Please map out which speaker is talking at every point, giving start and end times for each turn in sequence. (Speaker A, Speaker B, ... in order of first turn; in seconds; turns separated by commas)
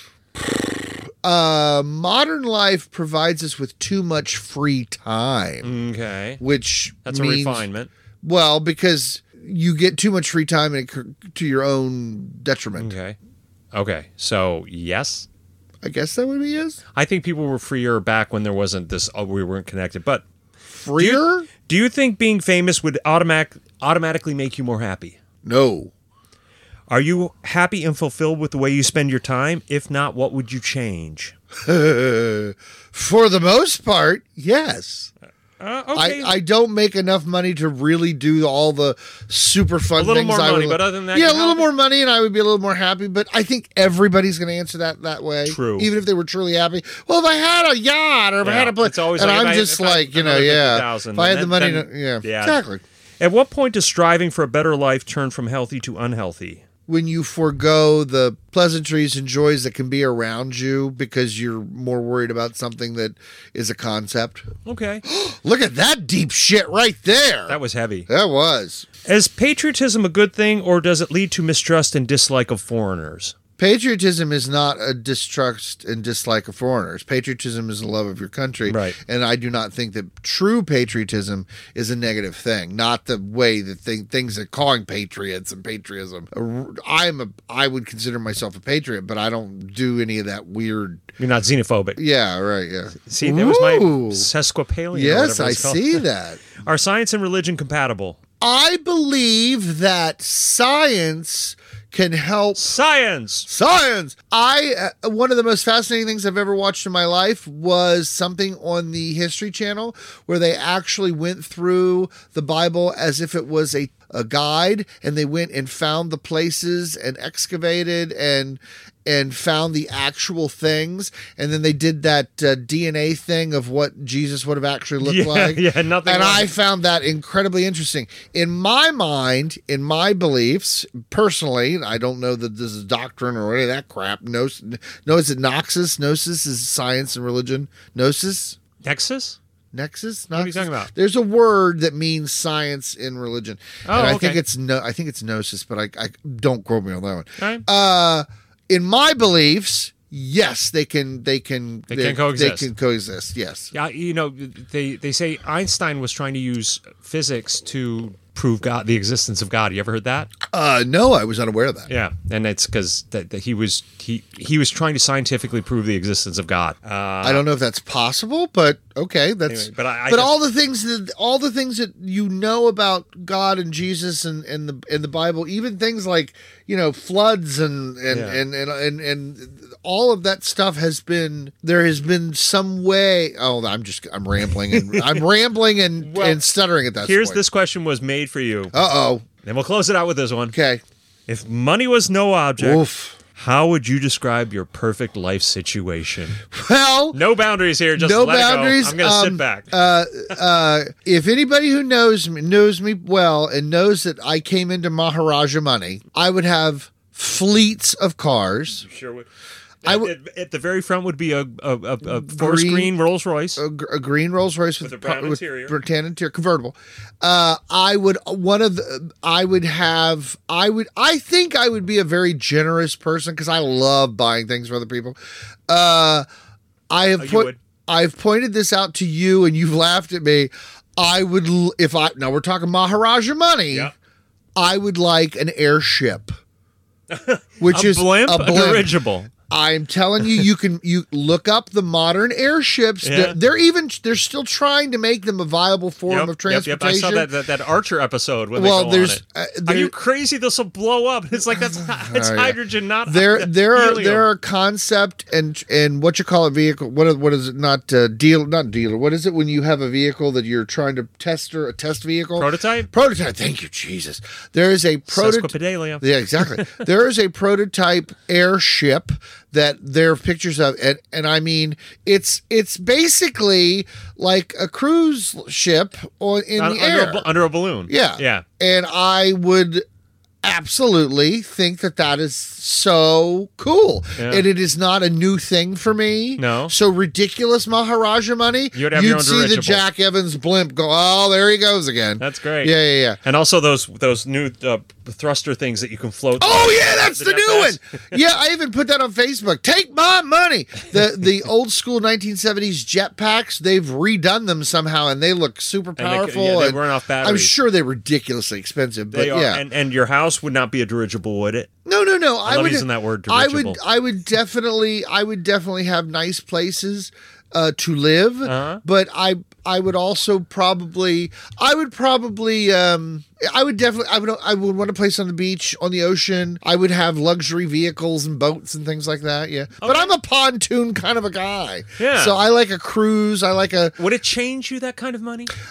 Speaker A: 0.3-5.7, Speaker B: 5.6-6.4, Speaker A: 6.4-7.7, Speaker B: 7.0-7.9, Speaker A: 8.2-12.9, Speaker B: 12.8-13.2, Speaker B: 13.7-15.3, Speaker A: 15.8-16.8, Speaker B: 16.9-20.2, Speaker A: 20.7-21.5, Speaker B: 21.0-25.2, Speaker A: 25.4-25.9, Speaker B: 26.9-31.3, Speaker A: 31.6-35.1, Speaker B: 35.6-36.3, Speaker A: 35.9-52.8, Speaker B: 40.0-41.7, Speaker B: 45.4-45.9, Speaker B: 48.4-52.6, Speaker B: 53.2-56.6, Speaker A: 56.9-64.5, Speaker B: 64.6-65.0, Speaker A: 65.1-67.6, Speaker B: 67.5-68.1, Speaker A: 68.1-68.9, Speaker B: 69.0-73.3, Speaker A: 73.6-91.0, Speaker B: 78.7-79.0, Speaker B: 91.2-92.0, Speaker A: 92.0-94.3, Speaker B: 93.0-96.0, Speaker A: 94.9-96.4, Speaker B: 96.6-98.2, Speaker A: 98.4-102.6, Speaker B: 102.5-103.5, Speaker A: 103.5-138.6, Speaker B: 125.0-126.5, Speaker B: 138.8-139.4, Speaker A: 139.7-153.7, Speaker B: 140.3-140.9, Speaker B: 143.8-144.4, Speaker B: 147.4-147.6, Speaker B: 151.9-152.7, Speaker B: 153.7-160.3, Speaker A: 160.5-161.9, Speaker B: 161.9-167.4, Speaker A: 167.2-187.4, Speaker B: 169.5-170.4, Speaker B: 178.1-178.4, Speaker B: 184.7-185.2, Speaker B: 186.0-186.4, Speaker B: 187.0-188.8, Speaker A: 188.7-189.2, Speaker B: 189.4-190.5, Speaker A: 190.5-190.8, Speaker B: 191.3-196.4, Speaker A: 192.6-193.2, Speaker A: 196.5-197.2, Speaker B: 197.1-199.7, Speaker A: 197.9-208.8, Speaker B: 208.8-209.3, Speaker B: 209.8-213.6, Speaker A: 209.8-210.1, Speaker A: 212.0-212.9, Speaker A: 213.6-225.2, Speaker B: 214.8-215.8, Speaker A: 225.7-226.2, Speaker A: 226.9-233.9, Speaker B: 227.2-227.6, Speaker A: 234.6-236.3, Speaker B: 237.1-239.3, Speaker A: 237.6-238.9, Speaker A: 239.5-247.3, Speaker B: 243.0-243.4, Speaker B: 246.1-254.3, Speaker A: 248.5-249.9, Speaker A: 251.5-277.3, Speaker B: 262.4-262.9, Speaker B: 265.1-266.8, Speaker B: 276.6-278.4, Speaker A: 277.9-279.8, Speaker A: 280.4-293.2, Speaker B: 284.2-284.4, Speaker B: 286.4-286.7, Speaker B: 288.7-289.8, Speaker B: 292.2-298.1, Speaker A: 296.4-309.6, Speaker B: 306.0-307.5, Speaker B: 309.1-311.7, Speaker A: 311.9-333.9, Speaker B: 312.4-313.8, Speaker B: 318.4-318.8, Speaker B: 329.8-330.1, Speaker B: 332.0-332.4, Speaker B: 334.0-335.5